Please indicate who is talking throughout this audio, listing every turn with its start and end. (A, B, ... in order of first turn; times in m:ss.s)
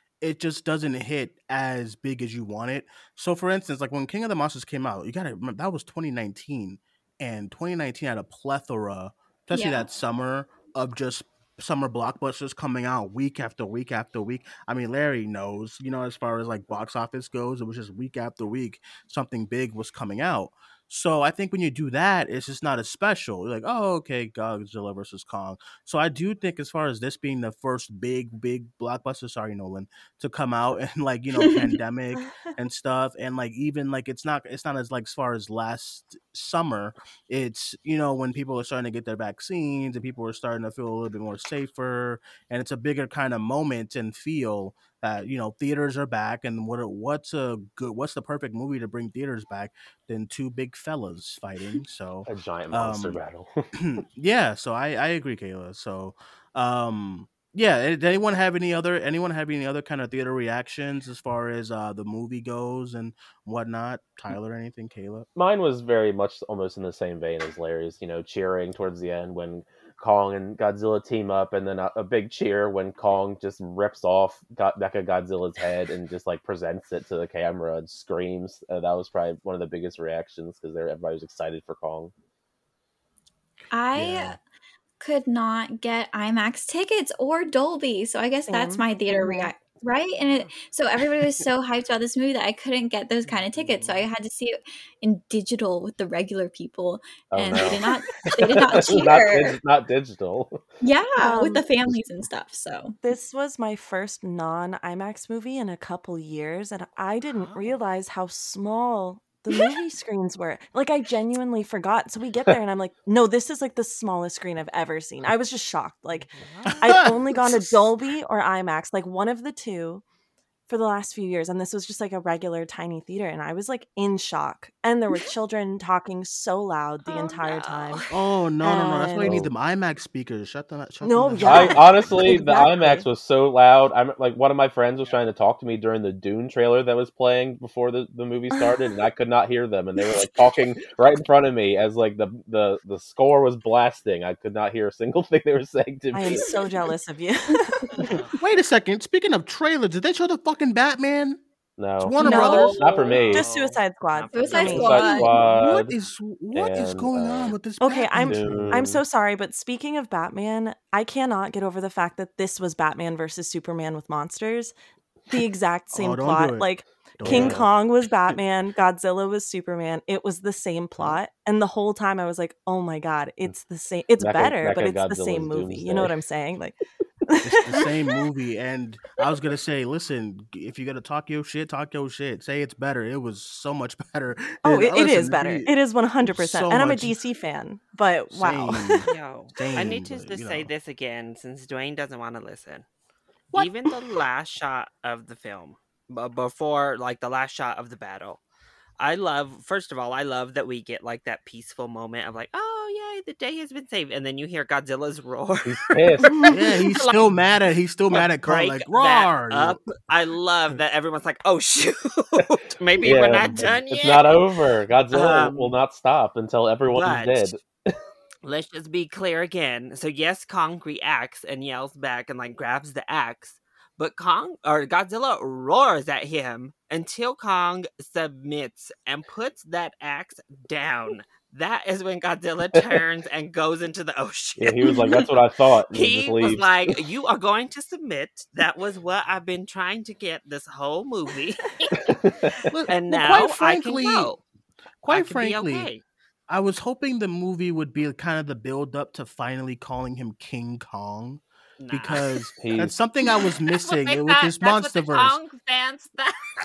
0:00.2-0:53.2 A
0:09.5-0:09.8 B
0:52.2-0:53.7 C
0:53.8-1:05.3 A
1:05.3-1:22.1 C
1:23.7-1:24.4 B
1:24.0-1:24.3 A
1:25.0-1:39.6 B
1:28.5-1:29.5 D
1:33.5-1:34.0 A
1:37.3-1:40.6 C
1:40.8-1:43.0 B
1:41.2-1:41.6 D
1:43.0-2:00.0 D
1:56.1-1:57.0 E
1:56.8-1:57.7 A
2:00.7-2:08.0 D
2:07.2-2:08.1 E
2:08.1-2:12.3 A
2:08.6-2:09.4 D
2:09.2-2:09.5 C
2:11.0-2:13.1 D
2:11.4-2:26.4 C
2:26.1-2:28.0 D
2:26.3-2:26.7 B
2:28.1-2:28.3 E
2:28.4-2:31.4 A
2:31.8-2:33.5 C
2:32.0-2:33.2 A
2:32.2-2:35.2 D
2:32.4-2:35.2 E
2:34.3-2:35.3 B
2:34.7-2:35.9 C
2:35.2-2:38.8 A
2:36.5-2:37.5 C
2:37.8-2:44.7 D
2:38.2-2:39.0 C
2:45.3-2:57.8 D
2:45.9-2:47.6 A
2:47.2-2:47.7 C
2:54.2-2:56.1 C
2:57.4-3:05.7 A
3:04.6-3:09.0 D
3:06.2-3:07.2 A
3:08.3-3:10.7 A
3:09.0-3:12.8 E
3:13.5-3:18.4 E
3:13.5-3:14.0 A
3:19.0-3:27.3 E
3:25.6-3:26.4 C
3:26.4-3:29.8 A
3:28.1-3:34.4 E
3:33.0-3:38.0 C
3:33.4-3:33.8 A
3:35.1-3:35.8 E
3:36.9-3:37.5 E
3:38.4-3:55.1 E
3:54.6-3:56.9 C
3:54.8-3:55.2 B
3:55.9-4:02.1 E
4:02.0-4:02.6 C
4:02.7-4:04.3 A
4:02.9-4:04.4 E
4:05.0-4:05.9 A
4:05.1-4:06.0 E
4:06.5-4:15.4 A
4:11.8-4:12.4 E
4:12.6-4:13.0 C
4:13.8-4:16.4 E